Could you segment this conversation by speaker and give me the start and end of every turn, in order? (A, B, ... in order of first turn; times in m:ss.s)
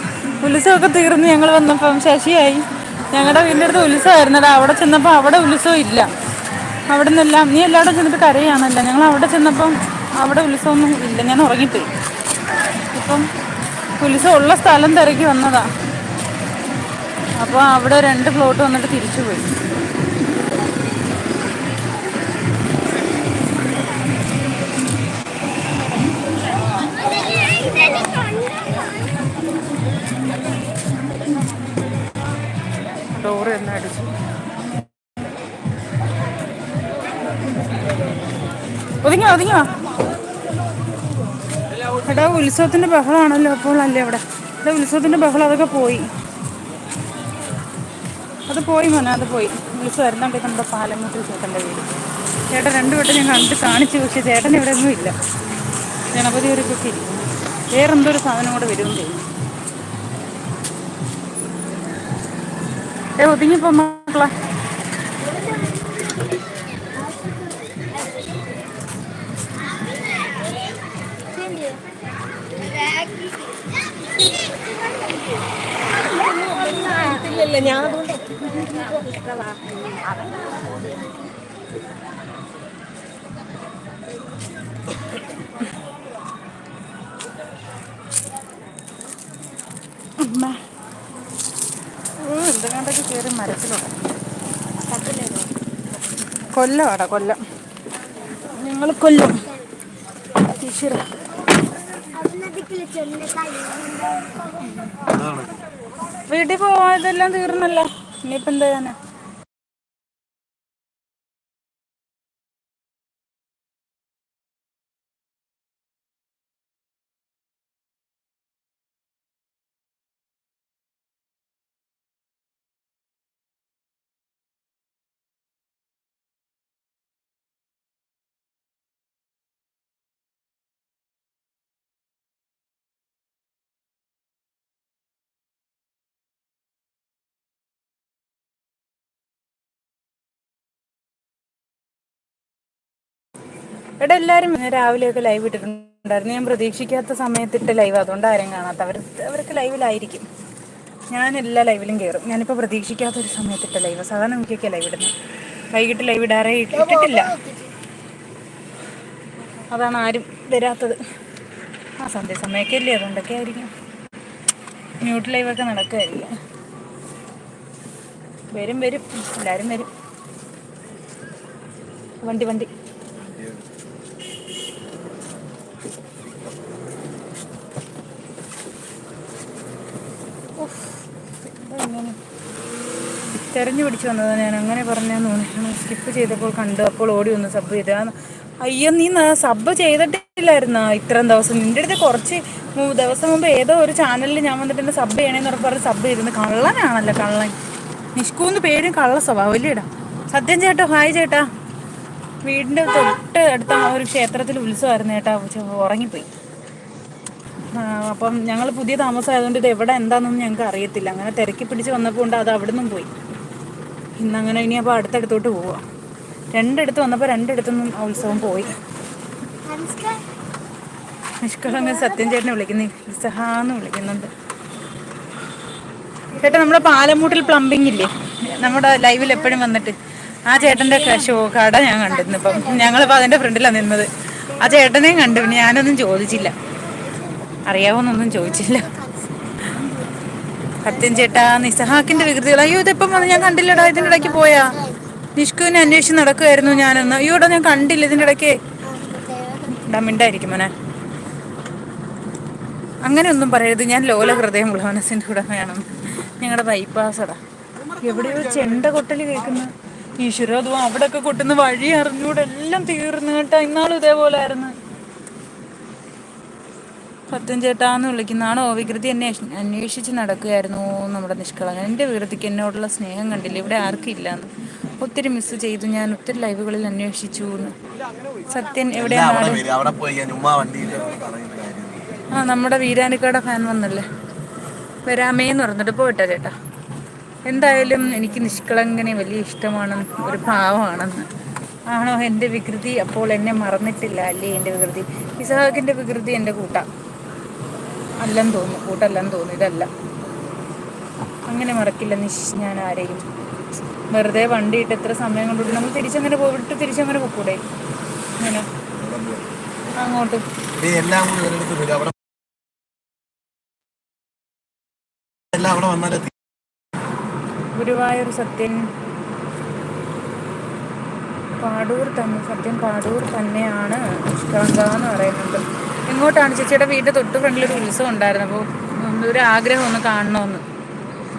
0:00.4-0:06.1 A
0:06.9-0:11.9 A
0:12.9-0:13.3 A
0:14.0-0:15.7 A
0:17.4-0:19.6 A
0:27.7-0:28.4 B
0:33.1-0:34.1 A
0:39.0-0:39.7 A
0:42.0-0:46.1 A
0:48.5-0:51.9 A
0:52.5-0:55.1 A
0:56.1-0:59.3 A
1:03.2-1:04.3 A
1:05.5-1:05.9 B
1:07.0-1:07.5 B
1:11.3-1:11.8 B
1:12.8-1:13.2 B
1:16.2-1:18.2 B
1:19.0-1:19.6 B
1:30.2-1:30.6 A
1:32.2-1:33.9 A
1:34.9-1:35.5 B
1:36.3-1:37.4 A
1:38.5-1:39.5 A
1:40.4-1:41.0 A
1:42.1-1:44.7 B
1:45.1-1:45.5 C
1:46.3-1:49.0 A
2:24.0-2:30.3 A
2:31.1-2:35.1 A
2:35.7-2:37.4 A
2:36.9-2:37.7 B
2:39.7-2:41.0 A
2:42.0-2:43.7 A
2:45.0-2:46.4 A
2:48.5-2:49.9 A
2:52.2-2:52.7 A
3:00.5-3:02.2 A
3:03.3-3:17.6 A
3:18.2-3:21.5 A
3:22.4-3:26.3 A
3:27.7-3:33.1 A
3:34.2-3:35.8 A
3:36.5-3:38.7 A
3:39.6-3:40.2 B
3:41.4-3:44.3 A
3:46.3-3:56.5 A
3:52.3-3:53.3 B
3:54.6-3:54.9 B
3:56.9-3:57.5 B
3:57.7-3:59.0 A
3:58.6-3:59.5 B
3:59.6-3:59.9 A
4:00.8-4:04.8 A
4:03.2-4:05.0 B
4:05.3-4:08.6 A
4:08.8-4:09.8 B
4:09.7-4:10.7 A
4:13.0-4:17.4 A
4:18.0-4:24.8 A
4:27.3-4:37.8 A
4:38.5-4:39.6 A
4:39.0-4:42.0 C
4:42.3-4:44.1 A
4:45.0-4:46.5 A
4:47.4-4:51.3 A
4:51.9-4:56.8 A
4:58.2-4:59.9 A
5:01.4-5:03.2 A
5:04.1-5:07.6 A
5:08.4-5:08.7 A
5:09.0-5:09.4 C
5:09.9-5:10.4 A
5:10.8-5:12.1 C
5:15.5-5:16.3 C
5:17.8-5:18.9 A
5:21.6-5:30.6 A